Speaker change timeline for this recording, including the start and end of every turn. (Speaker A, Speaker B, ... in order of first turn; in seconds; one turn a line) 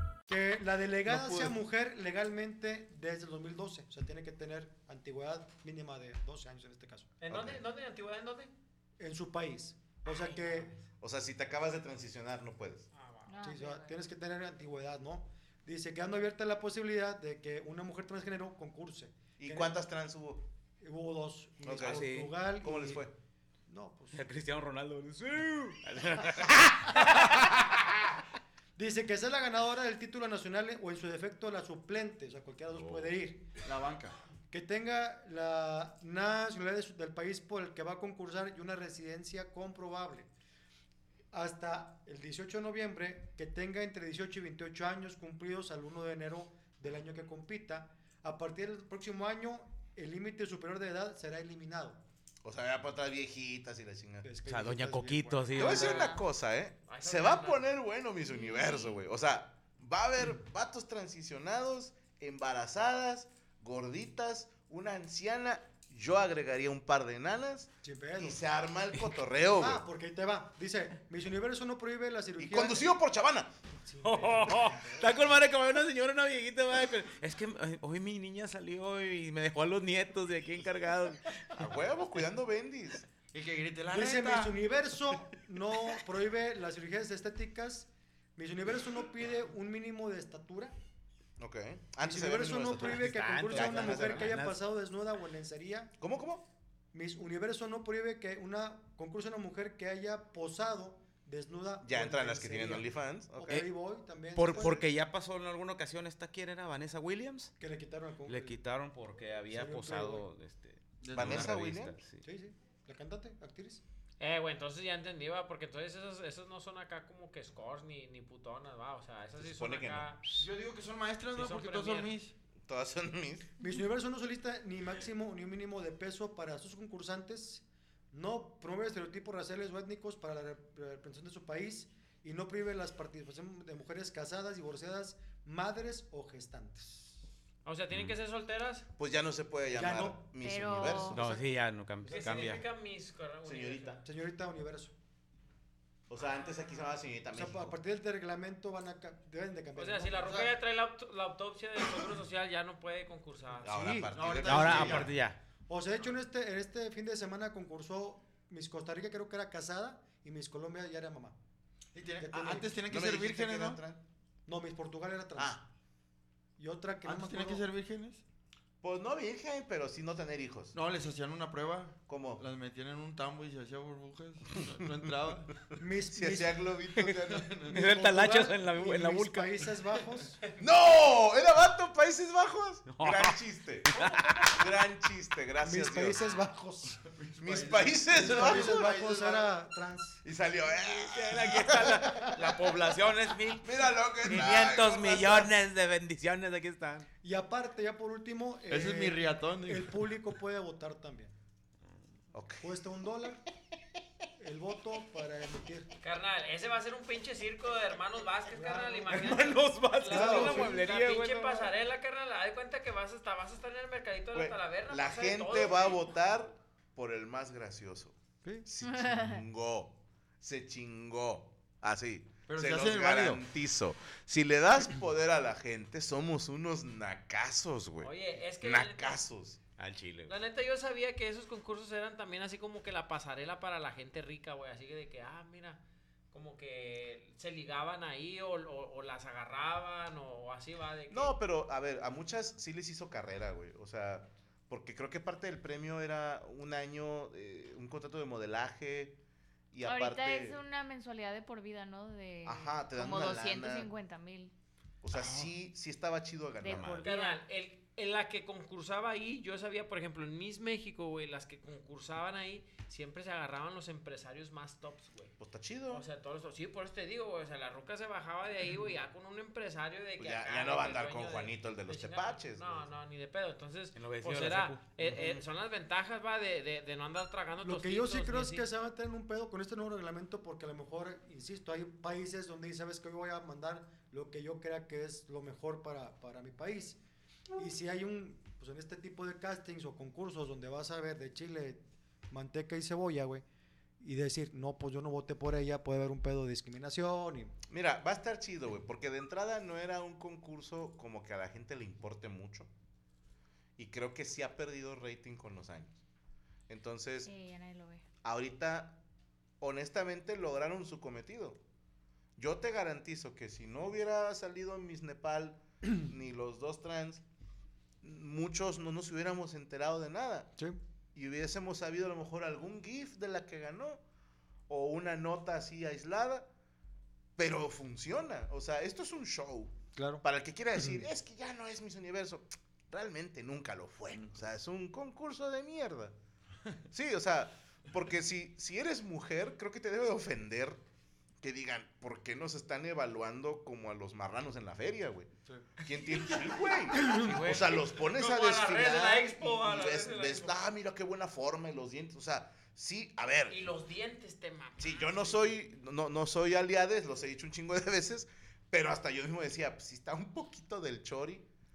Speaker A: 0.3-7.1
Speaker B: 1.1-1.6
Speaker C: 7.2-8.5
Speaker B: 7.3-7.6
Speaker A: 9.0-10.7
Speaker C: 10.1-10.7
Speaker B: 11.0-12.9
Speaker C: 12.9-13.3
Speaker D: 13.3-13.9
Speaker A: 13.4-19.7
Speaker B: 19.4-20.4
Speaker A: 20.8-23.1
Speaker B: 21.6-23.1
Speaker E: 21.9-22.3
Speaker A: 23.7-24.2
Speaker E: 24.1-27.6
Speaker A: 28.8-33.5
Speaker E: 32.7-33.1
Speaker F: 33.6-34.1
Speaker A: 34.5-40.3
Speaker A: 41.3-52.0
Speaker B: 52.4-54.3
Speaker A: 54.2-56.0
Speaker E: 54.5-56.0
Speaker B: 55.5-69.8
Speaker D: 55.6-56.2
Speaker C: 56.9-57.7
Speaker D: 58.3-59.0
Speaker A: 67.8-68.4
Speaker A: 69.6-72.9
Speaker B: 72.4-73.5
Speaker A: 73.8-75.3
Speaker E: 74.0-81.7
Speaker B: 81.6-83.0
Speaker F: 83.3-84.6
Speaker A: 83.9-90.7
Speaker B: 91.4-94.4
Speaker A: 92.0-95.9
Speaker E: 92.8-94.6
Speaker B: 96.0-96.5
Speaker A: 96.9-104.9
Speaker B: 101.8-103.7
Speaker E: 104.3-107.5
Speaker A: 107.6-108.6
Speaker E: 108.3-112.2
Speaker A: 109.5-110.3
Speaker F: 111.0-111.7
Speaker B: 111.1-112.0
Speaker A: 112.2-113.8
Speaker C: 114.2-120.3
Speaker B: 119.4-120.2
Speaker F: 120.4-122.3
Speaker C: 121.3-122.1
Speaker B: 122.7-123.5
Speaker A: 123.6-137.2
Speaker C: 137.7-138.9
Speaker B: 139.0-141.4
Speaker A: 139.7-140.2
Speaker D: 140.4-141.2
Speaker E: 141.1-142.6
Speaker C: 142.1-144.0
Speaker A: 142.1-142.4
Speaker B: 143.4-144.0
Speaker A: 144.0-144.9
Speaker B: 146.1-147.8
Speaker A: 147.3-150.4
Speaker C: 149.8-153.7
Speaker A: 153.6-154.1
Speaker B: 153.6-155.1
Speaker F: 154.1-155.2
Speaker E: 154.4-155.4
Speaker A: 154.7-155.0
Speaker A: 155.7-161.4
Speaker F: 161.9-163.8
Speaker A: 162.2-162.7
Speaker B: 162.9-164.0
Speaker A: 164.5-165.6
Speaker B: 165.4-165.7
Speaker A: 166.6-167.7
Speaker F: 167.0-168.2
Speaker B: 168.8-170.8
Speaker F: 170.7-175.5
Speaker B: 172.1-172.4
Speaker B: 174.6-174.9
Speaker A: 175.8-176.6
Speaker B: 176.1-177.5
Speaker F: 177.3-177.8
Speaker E: 177.7-179.7
Speaker A: 177.7-180.4
Speaker B: 180.6-186.2
Speaker E: 182.9-183.4
Speaker E: 183.9-184.6
Speaker C: 184.0-184.5
Speaker A: 185.6-187.1
Speaker F: 187.1-189.5
Speaker B: 187.4-188.9
Speaker A: 188.1-190.2
Speaker B: 190.2-192.6
Speaker E: 190.9-193.7
Speaker B: 193.5-195.5
Speaker E: 194.2-197.1
Speaker A: 197.2-201.3
Speaker F: 198.7-200.0
Speaker B: 202.3-202.7
Speaker A: 202.6-203.4
Speaker A: 204.4-205.9
Speaker C: 206.0-216.0
Speaker A: 208.5-209.5
Speaker E: 209.1-211.7
Speaker A: 210.1-210.8
Speaker B: 214.3-229.6
Speaker D: 218.8-219.4
Speaker F: 222.5-223.4
Speaker C: 228.0-229.2
Speaker E: 229.8-230.3
Speaker C: 230.3-235.8
Speaker C: 236.3-241.4
Speaker B: 241.1-249.2
Speaker B: 249.7-250.6
Speaker D: 249.8-254.5
Speaker B: 252.4-253.9
Speaker B: 255.0-257.1
Speaker D: 256.6-257.4
Speaker C: 257.0-265.4
Speaker B: 265.4-266.1
Speaker C: 265.9-278.7
Speaker B: 270.2-272.9
Speaker E: 273.9-275.3
Speaker A: 277.6-287.0
Speaker A: 287.6-293.4
Speaker A: 294.0-297.6
Speaker B: 297.7-302.7
Speaker B: 303.8-305.9
Speaker B: 306.7-307.3
Speaker D: 307.2-308.0
Speaker B: 308.2-309.0
Speaker B: 309.6-311.6
Speaker B: 312.4-317.2
Speaker B: 318.0-320.5
Speaker B: 321.1-324.0
Speaker B: 324.7-326.5
Speaker B: 327.4-336.1
Speaker A: 330.0-330.2
Speaker A: 330.8-331.1
Speaker B: 336.9-340.8
Speaker B: 341.4-353.6
Speaker E: 347.1-347.8
Speaker C: 348.0-350.6
Speaker C: 353.5-355.6
Speaker B: 354.8-361.5